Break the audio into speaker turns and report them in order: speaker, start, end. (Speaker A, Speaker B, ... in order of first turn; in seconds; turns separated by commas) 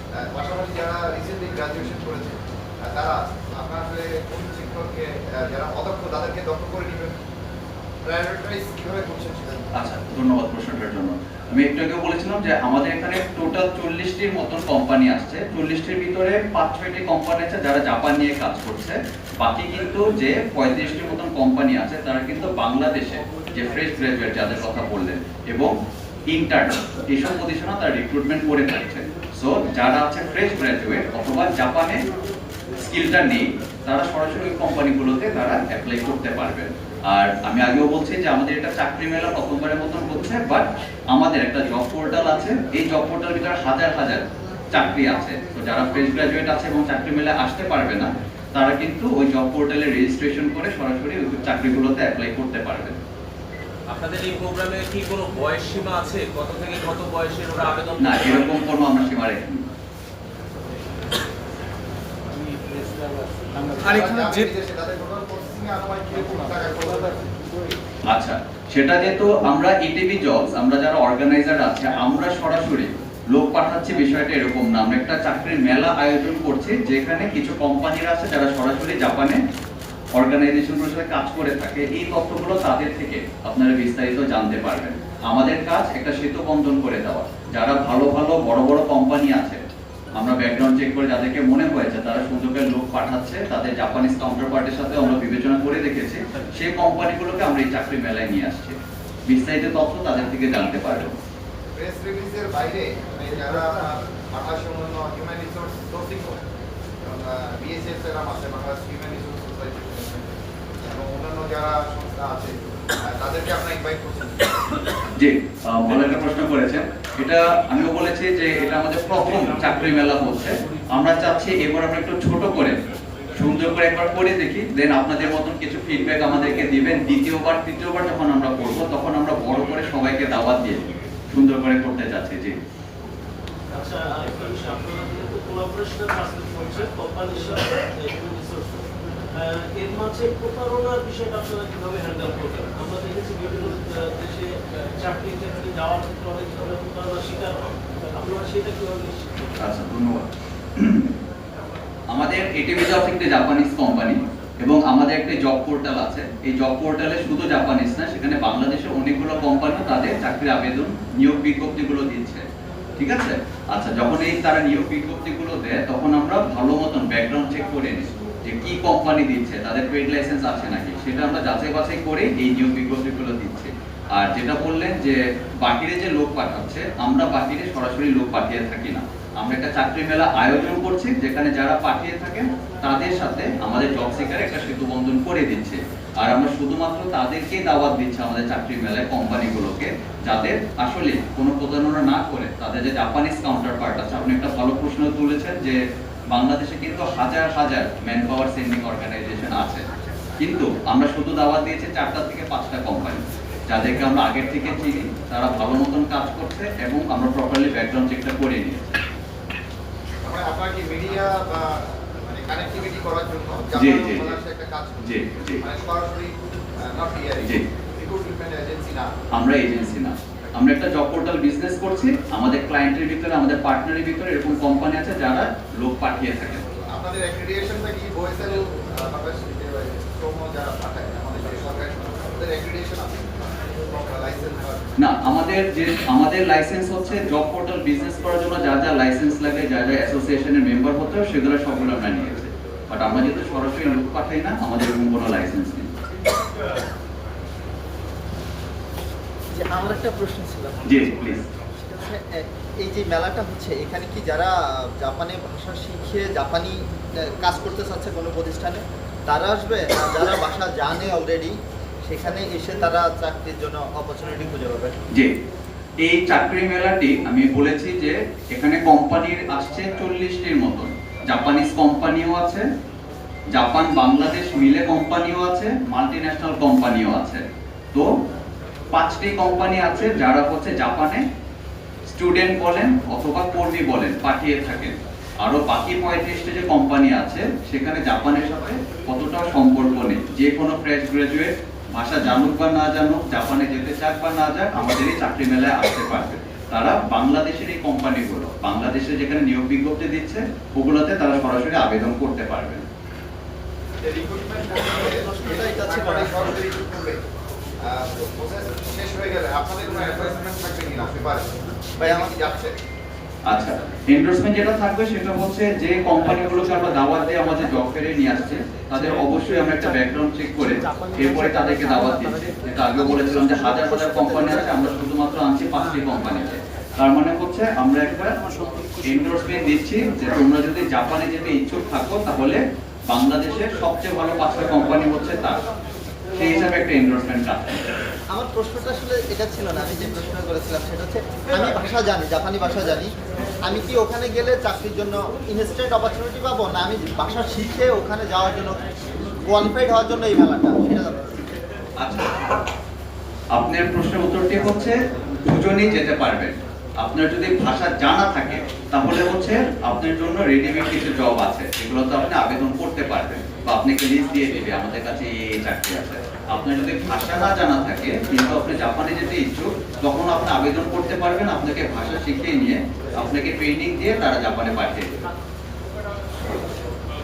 Speaker A: 0.1-7.2, Speaker A: 8.1-9.7, Speaker B: 9.8-25.7, Speaker B: 26.3-32.0, Speaker B: 32.8-53.0, Speaker C: 53.9-58.7, Speaker B: 58.0-59.6, Speaker A: 63.6-67.3, Speaker C: 63.8-64.5, Speaker B: 68.1-79.4, Speaker B: 80.2-89.6, Speaker B: 90.2-101.1, Speaker A: 101.8-106.4, Speaker A: 107.0-114.6, Speaker B: 115.2-122.8, Speaker B: 123.4-132.6, Speaker D: 133.7-149.6, Speaker B: 149.6-151.1, Speaker B: 152.1-162.5, Speaker B: 163.0-195.8, Speaker B: 196.3-199.8, Speaker B: 200.4-209.0, Speaker A: 210.2-219.1, Speaker B: 213.7-214.4, Speaker B: 215.0-215.6, Speaker B: 219.3-226.6, Speaker A: 226.9-235.0, Speaker B: 235.0-245.9, Speaker E: 249.5-250.8, Speaker B: 250.8-251.4, Speaker E: 251.8-265.0, Speaker B: 266.0-272.7, Speaker B: 273.5-278.1, Speaker B: 278.9-281.2, Speaker B: 282.1-302.9, Speaker A: 304.0-307.2, Speaker E: 305.6-306.2, Speaker A: 307.9-311.5, Speaker E: 312.0-312.4, Speaker A: 312.0-312.8, Speaker B: 313.5-328.4, Speaker E: 323.0-324.7, Speaker B: 329.0-335.6, Speaker B: 336.4-337.8, Speaker E: 338.3-343.1, Speaker E: 343.6-348.8, Speaker E: 349.4-351.4, Speaker B: 352.0-352.3, Speaker B: 353.5-375.1